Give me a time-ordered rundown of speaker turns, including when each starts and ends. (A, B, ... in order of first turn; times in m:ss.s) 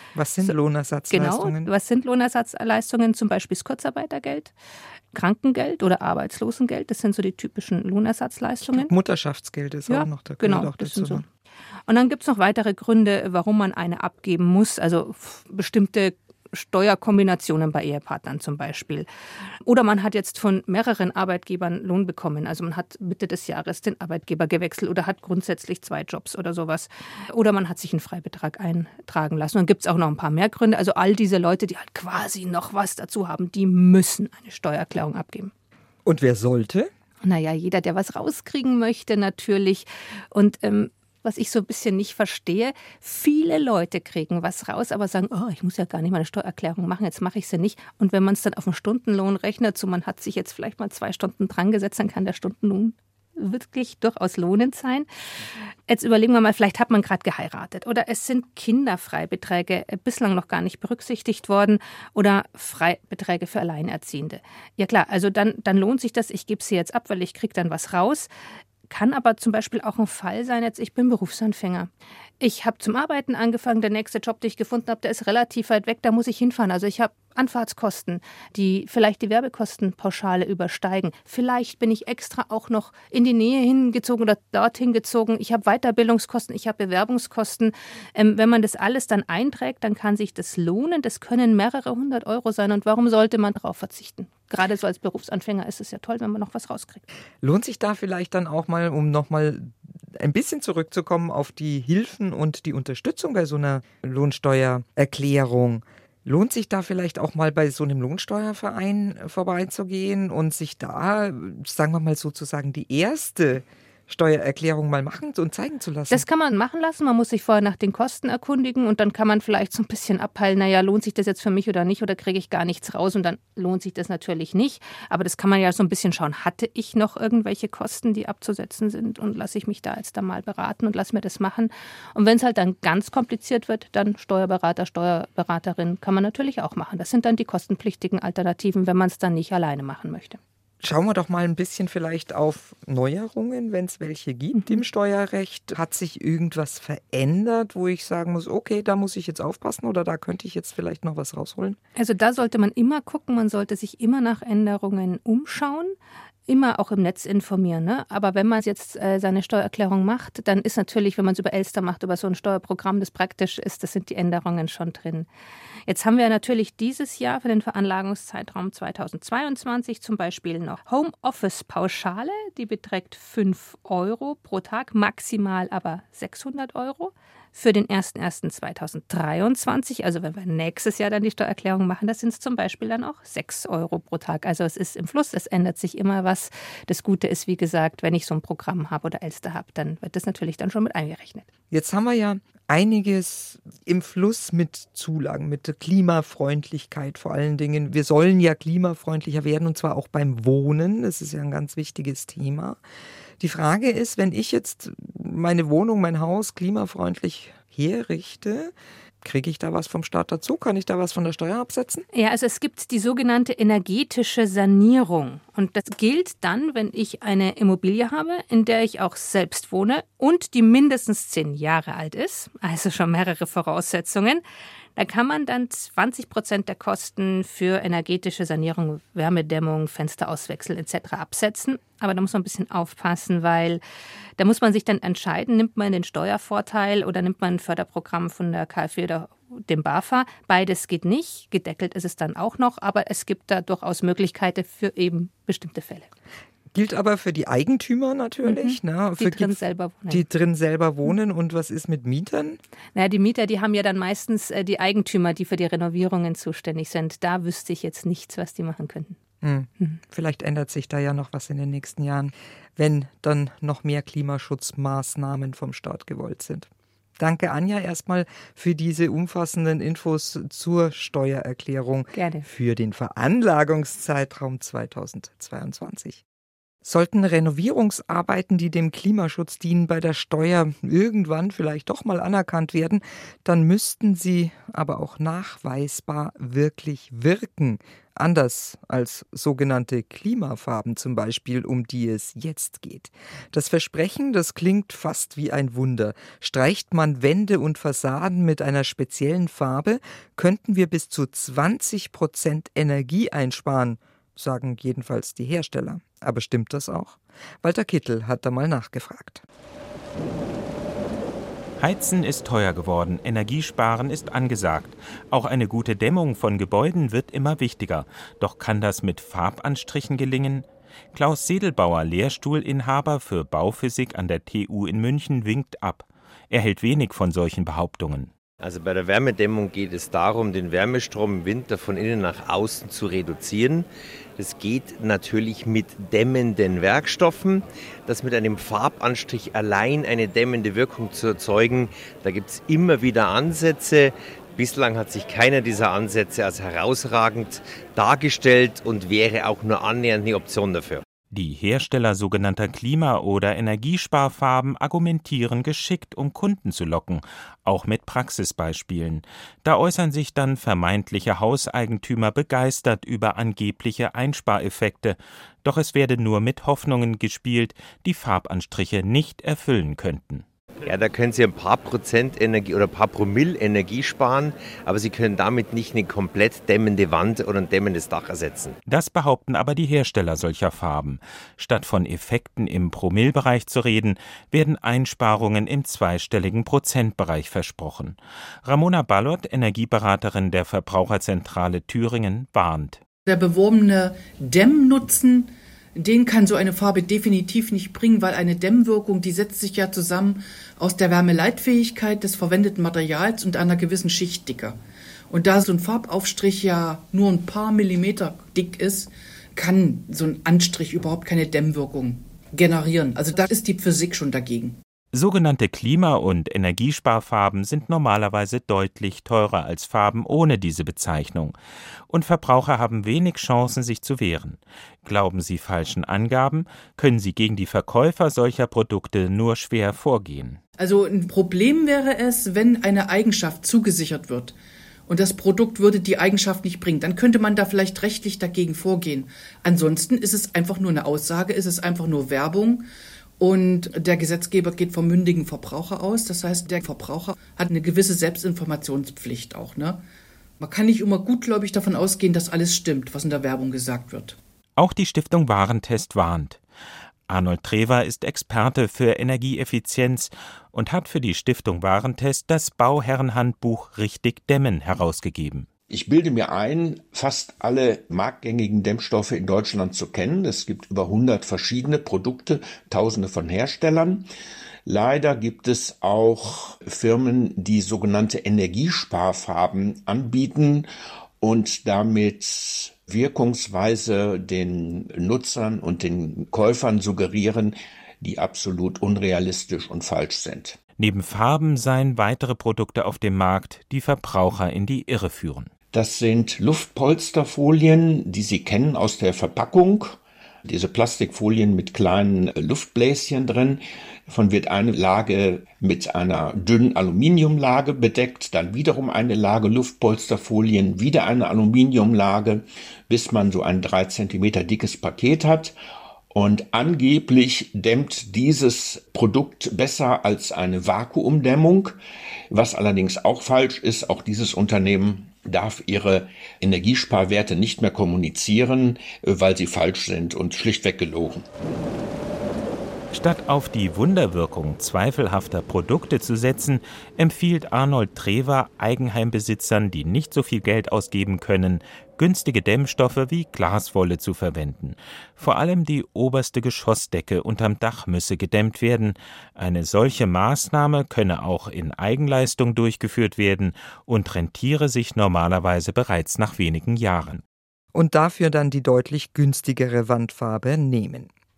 0:00.2-0:01.7 A
0:01.1-0:04.5 B
0:05.1-0:08.9 B
0:08.7-0:11.2 A
0:09.9-0:11.2 B
0:11.9-0:19.1 B
0:19.7-0:35.5 B
0:36.0-0:36.9 A
0:37.2-0:55.1 B
0:55.9-1:08.3 B
1:08.9-1:11.9 B
1:12.4-1:37.0 B
1:37.4-1:56.2 A
1:56.1-2:20.4 B
2:20.8-2:31.8 A
2:32.0-2:36.0 B
2:36.5-2:45.3 B
2:45.9-3:11.5 B
3:11.7-3:22.8 A
3:23.4-3:32.1 A
3:32.1-3:44.4 B
3:45.0-3:53.8 B
3:54.4-4:06.1 B
4:06.7-4:12.6 A
4:08.4-4:10.3 B
4:13.0-4:19.2 B
4:19.4-4:36.2 A
4:32.1-4:32.4 B
4:36.8-5:09.4 A
5:11.8-5:28.3 C
5:28.6-5:51.0 D
5:51.3-6:10.4 C
6:10.8-6:18.8 D
6:18.9-6:33.0 C
6:33.3-6:44.8 E
6:45.3-6:54.8 E
6:55.1-7:01.6 C
7:02.1-7:10.6 C
7:10.8-7:14.6 E
7:15.1-7:22.9 E
7:23.4-7:30.0 E
7:30.6-7:34.4 E
7:34.8-7:36.6 C
7:37.3-7:45.7 C
7:45.9-7:54.3 F
7:54.9-8:00.9 F
8:01.4-8:10.8 F
8:11.0-8:15.7 C
8:15.9-8:35.8 F
8:36.3-8:42.0 F
8:42.5-8:51.4 F
8:53.1-9:17.4 C
9:17.9-9:21.3 A